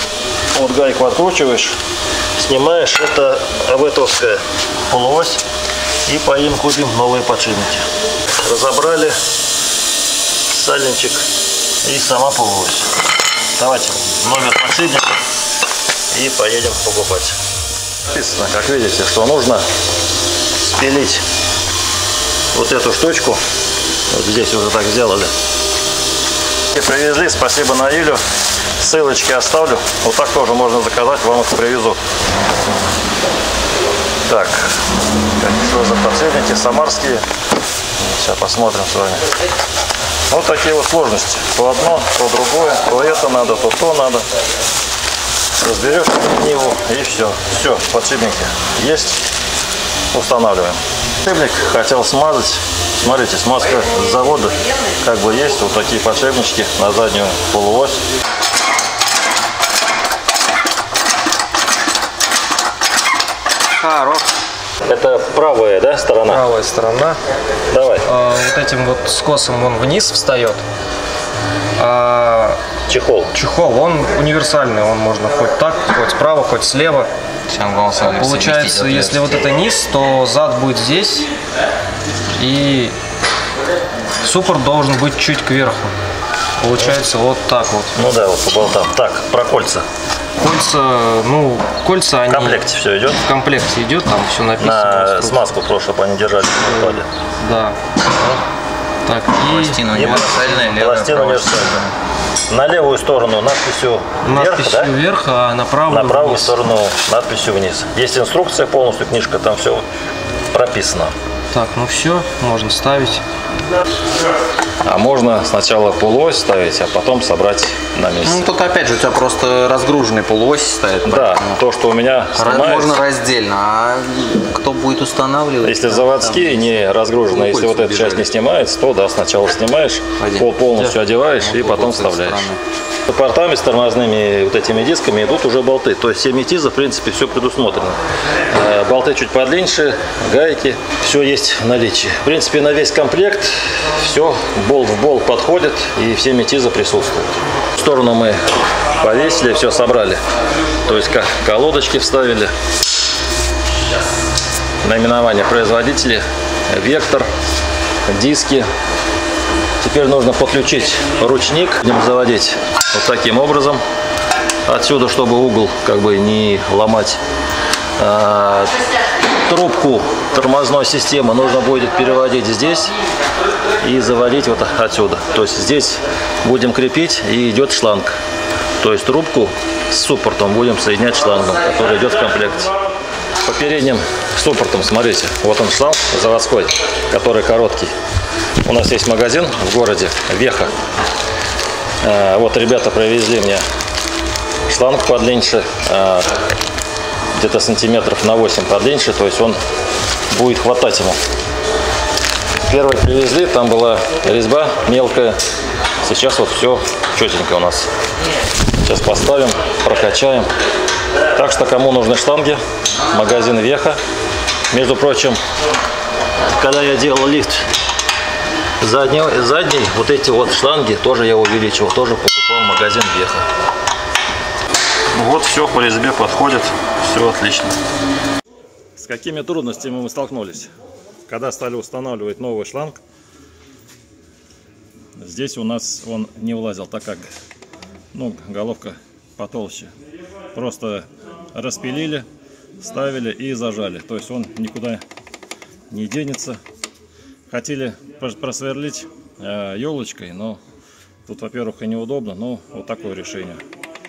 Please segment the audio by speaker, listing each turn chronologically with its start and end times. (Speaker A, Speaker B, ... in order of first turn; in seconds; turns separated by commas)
Speaker A: 0.5-1.8, Speaker A: 2.4-5.4, Speaker A: 6.0-7.9, Speaker A: 8.4-9.2, Speaker A: 10.5-11.3, Speaker A: 11.8-12.9, Speaker A: 13.6-15.2, Speaker A: 16.1-17.4, Speaker A: 18.1-19.6, Speaker A: 20.6-21.2, Speaker A: 22.5-23.4, Speaker A: 24.1-25.3, Speaker A: 26.7-28.2, Speaker A: 28.8-32.0, Speaker A: 34.3-34.8, Speaker A: 35.4-37.2, Speaker A: 38.0-39.3, Speaker A: 40.3-44.3, Speaker A: 45.5-49.2, Speaker A: 50.1-58.0, Speaker B: 63.8-64.3, Speaker A: 64.8-66.4, Speaker B: 66.2-67.2, Speaker A: 67.7-68.1, Speaker B: 68.0-70.6, Speaker B: 71.8-72.6, Speaker A: 72.8-73.3, Speaker B: 73.3-81.3, Speaker C: 77.6-79.5, Speaker B: 82.3-83.0, Speaker B: 84.2-85.9, Speaker B: 86.6-88.0, Speaker A: 87.9-89.8, Speaker B: 90.4-92.6, Speaker A: 92.3-93.2, Speaker B: 93.2-95.5, Speaker A: 94.6-97.1, Speaker B: 96.7-97.8, Speaker B: 99.0-100.5, Speaker C: 99.4-101.6, Speaker A: 99.8-101.9, Speaker A: 102.5-104.9, Speaker B: 104.2-106.6, Speaker A: 105.9-109.8, Speaker A: 110.5-111.1, Speaker B: 111.5-113.2, Speaker A: 114.8-118.5, Speaker C: 118.2-121.6, Speaker A: 121.0-123.0, Speaker C: 122.4-128.2, Speaker A: 125.6-132.5, Speaker C: 130.2-132.6, Speaker A: 133.1-150.2, Speaker A: 150.8-152.5, Speaker A: 154.8-157.3, Speaker A: 158.1-158.7, Speaker A: 159.8-163.8, Speaker A: 164.7-167.2, Speaker A: 168.0-168.8, Speaker A: 169.4-172.9, Speaker A: 173.8-178.2, Speaker A: 178.8-182.7, Speaker A: 183.4-187.9, Speaker A: 188.6-190.7, Speaker A: 192.0-193.6, Speaker A: 194.7-196.3, Speaker A: 197.3-199.6, Speaker A: 200.3-201.2, Speaker A: 202.7-205.4, Speaker A: 206.0-207.9, Speaker A: 208.8-210.5, Speaker A: 211.3-214.0, Speaker A: 214.7-215.4, Speaker A: 216.5-217.7, Speaker A: 218.8-223.5, Speaker A: 225.1-227.8, Speaker A: 229.0-230.7, Speaker A: 231.3-233.0, Speaker A: 235.2-237.3, Speaker A: 238.1-239.9, Speaker A: 240.5-242.3, Speaker A: 242.8-245.0, Speaker A: 245.9-246.6, Speaker A: 247.5-250.6, Speaker A: 251.2-253.6